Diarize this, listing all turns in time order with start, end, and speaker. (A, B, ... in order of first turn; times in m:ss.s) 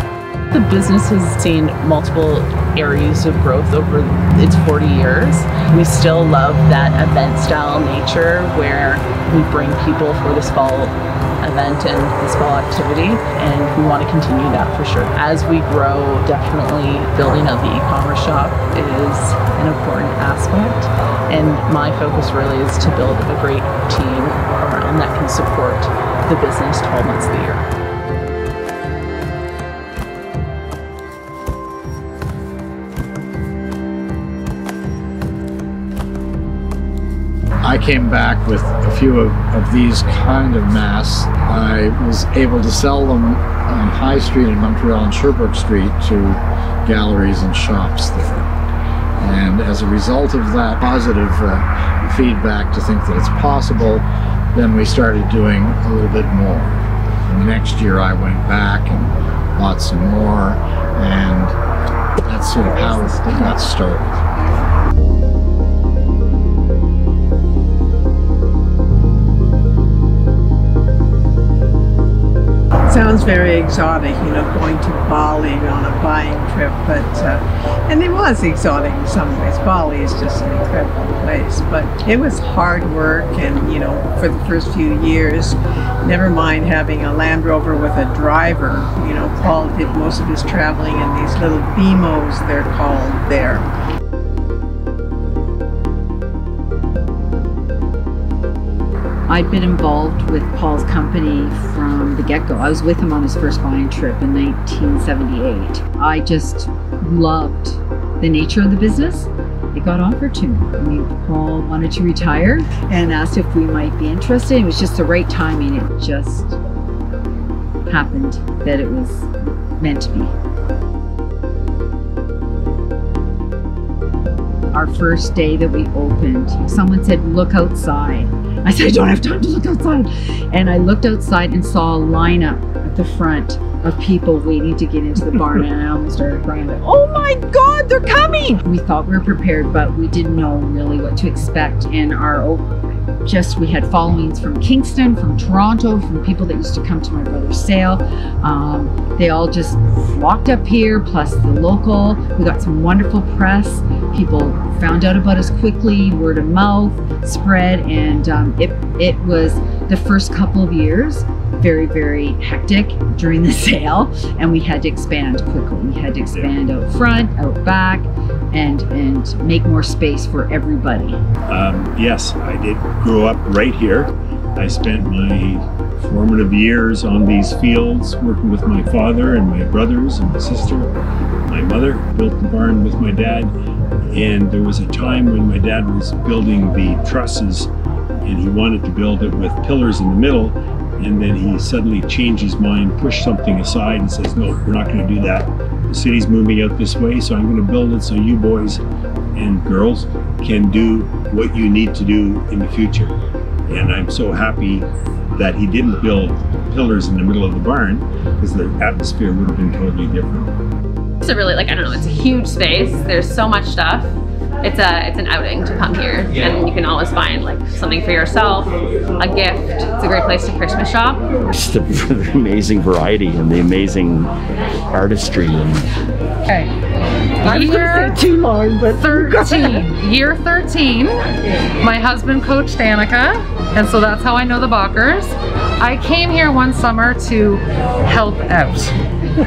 0:00.5-0:27.7 A
0:37.6-0:48.5 B
0:49.2-1:01.6 B
1:02.2-1:04.2 B
1:12.9-1:25.6 C
1:26.1-1:33.7 C
1:39.3-1:56.6 D
1:57.9-2:00.3 D
2:04.7-2:22.6 D
2:23.2-2:51.2 D
2:46.3-2:46.6 E
2:51.5-3:00.9 E
3:01.5-3:03.5 E
3:04.1-3:07.7 E
3:08.2-3:18.8 E
3:19.4-3:23.1 E
3:23.7-3:30.5 E
3:31.2-3:41.2 F
3:41.5-3:44.3 G
3:44.9-3:45.9 G
3:47.4-3:48.3 H
3:47.4-3:49.8 D
3:48.9-3:51.2 H
3:51.8-3:58.9 H